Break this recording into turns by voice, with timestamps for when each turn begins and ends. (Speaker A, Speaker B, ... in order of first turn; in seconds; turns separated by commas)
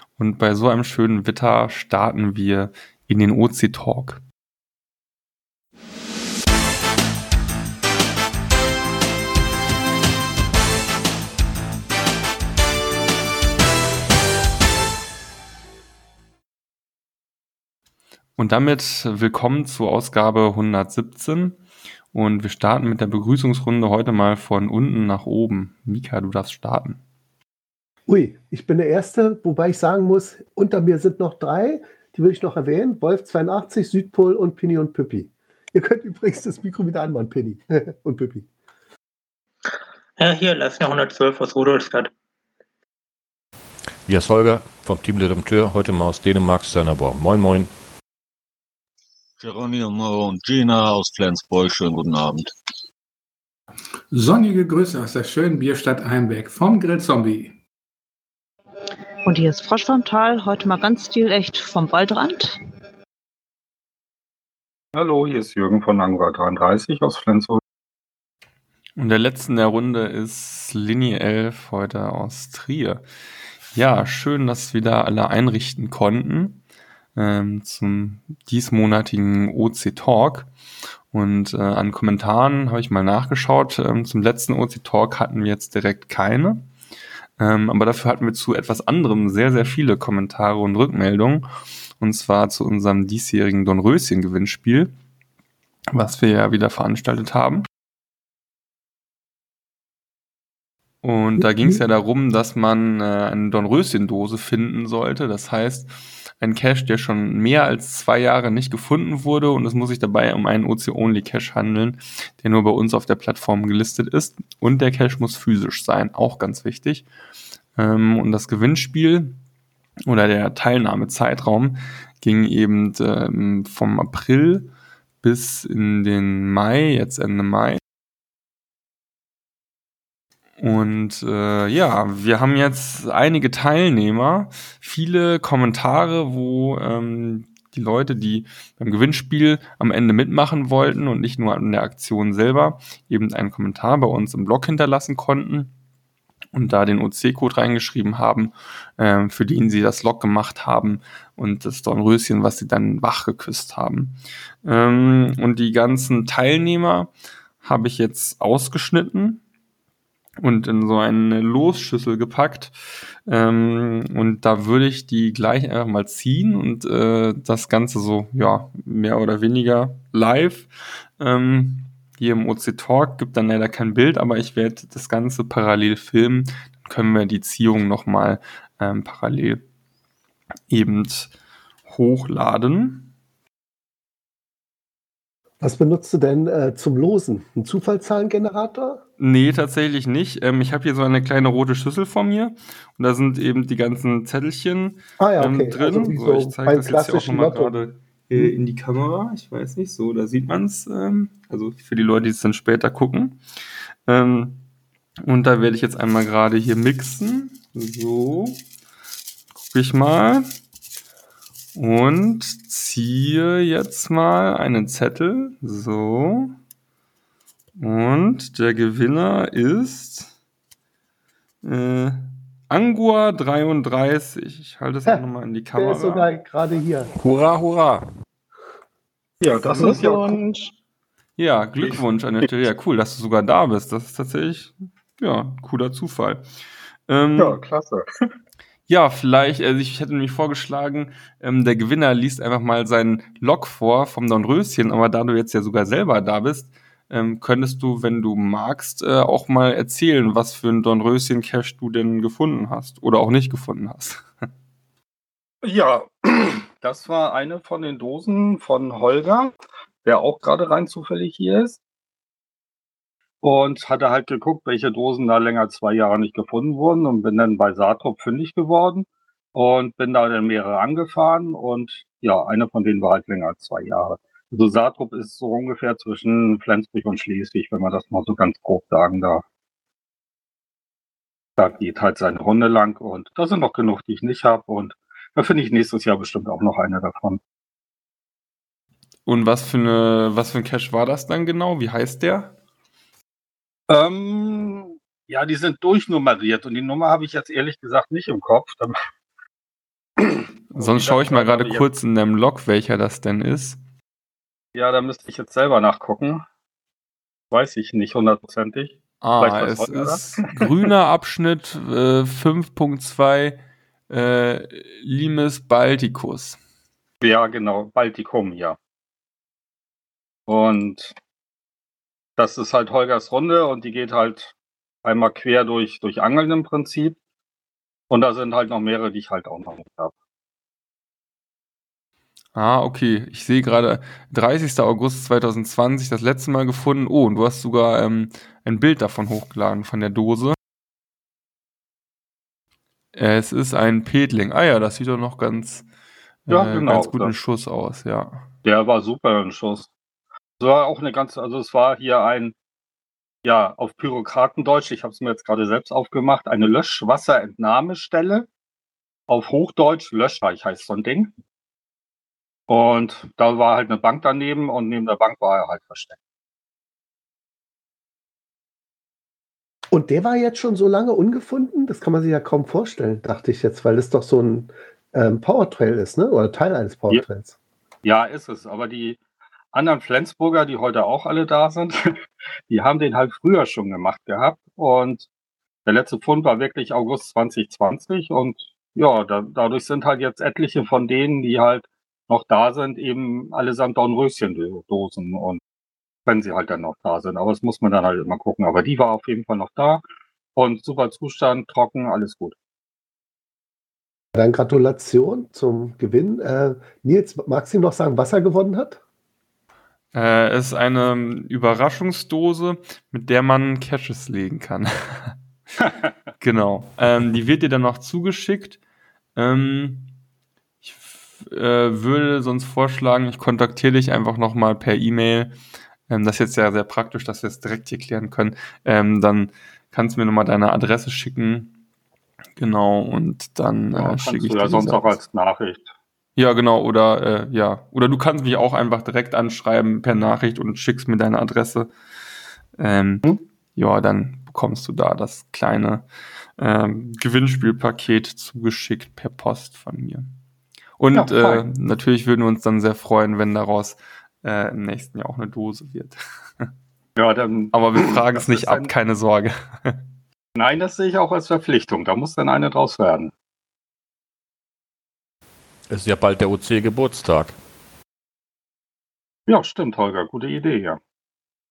Speaker A: 0.2-4.2, Speaker A: 18.4-21.6, Speaker A: 22.1-27.0, Speaker B: 28.1-38.5, Speaker C: 40.2-42.1, Speaker D: 44.1-47.7, Speaker E: 49.4-52.5, Speaker F: 54.1-57.6, Speaker G: 59.2-62.6, Speaker H: 64.9-67.6, Speaker A: 69.0-73.0, Speaker A: 73.7-76.6, Speaker A: 77.2-80.5, Speaker A: 81.1-86.7, Speaker A: 87.4-91.5, Speaker A: 92.0-94.9, Speaker A: 95.9-97.7, Speaker A: 101.0-117.1, Speaker A: 117.8-119.4, Speaker A: 120.1-124.7, Speaker A: 125.2-127.8, Speaker A: 130.6-145.7, Speaker A: 146.5-157.1, Speaker A: 157.6-159.4, Speaker A: 160.4-162.8, Speaker A: 163.3-179.6, Speaker A: 180.7-181.3, Speaker A: 181.9-183.1, Speaker B: 185.6-189.0, Speaker A: 189.2-203.4, Speaker B: 195.2-197.7, Speaker A: 204.1-204.6, Speaker A: 205.2-208.6, Speaker A: 209.7-210.5, Speaker A: 211.8-216.5, Speaker A: 217.8-220.3, Speaker A: 221.6-226.3, Speaker B: 225.7-227.1, Speaker D: 227.2-228.1, Speaker H: 229.4-230.4, Speaker G: 229.7-230.7, Speaker A: 231.4-236.4, Speaker A: 237.1-237.6, Speaker H: 237.4-238.2, Speaker A: 238.9-254.2, Speaker H: 255.6-259.5, Speaker H: 260.1-261.8, Speaker H: 263.4-279.4, Speaker H: 281.6-287.4, Speaker A: 289.3-292.5, Speaker H: 293.9-299.0, Speaker H: 300.2-301.9, Speaker A: 300.7-303.8, Speaker H: 304.8-306.4, Speaker H: 307.5-310.6, Speaker A: 309.2-313.6, Speaker A: 314.1-316.6, Speaker H: 317.2-318.8, Speaker H: 320.5-321.1, Speaker H: 322.4-327.2, Speaker H: 328.1-330.1, Speaker A: 332.6-340.6, Speaker A: 343.1-345.9, Speaker A: 346.5-348.5, Speaker H: 346.5-347.4, Speaker H: 348.6-349.9, Speaker H: 350.6-352.6, Speaker H: 353.4-358.5, Speaker H: 359.3-361.3, Speaker H: 362.7-366.2, Speaker B: 369.9-377.6, Speaker H: 378.0-379.2, Speaker H: 379.7-382.1, Speaker H: 382.7-385.3, Speaker H: 385.9-395.6, Speaker H: 396.3-400.0, Speaker H: 400.6-402.6, Speaker B: 404.4-409.0, Speaker A: 410.1-415.4, Speaker A: 416.4-418.8, Speaker A: 419.4-420.1, Speaker A: 420.8-425.5, Speaker A: 426.1-431.7, Speaker A: 432.6-435.2, Speaker H: 433.9-435.9, Speaker A: 436.4-441.9, Speaker A: 442.8-443.2, Speaker A: 443.8-446.1, Speaker A: 446.6-450.3, Speaker A: 451.0-456.7, Speaker H: 457.2-458.9, Speaker A: 457.7-460.0, Speaker H: 460.6-463.3, Speaker D: 465.9-467.6, Speaker H: 469.5-471.0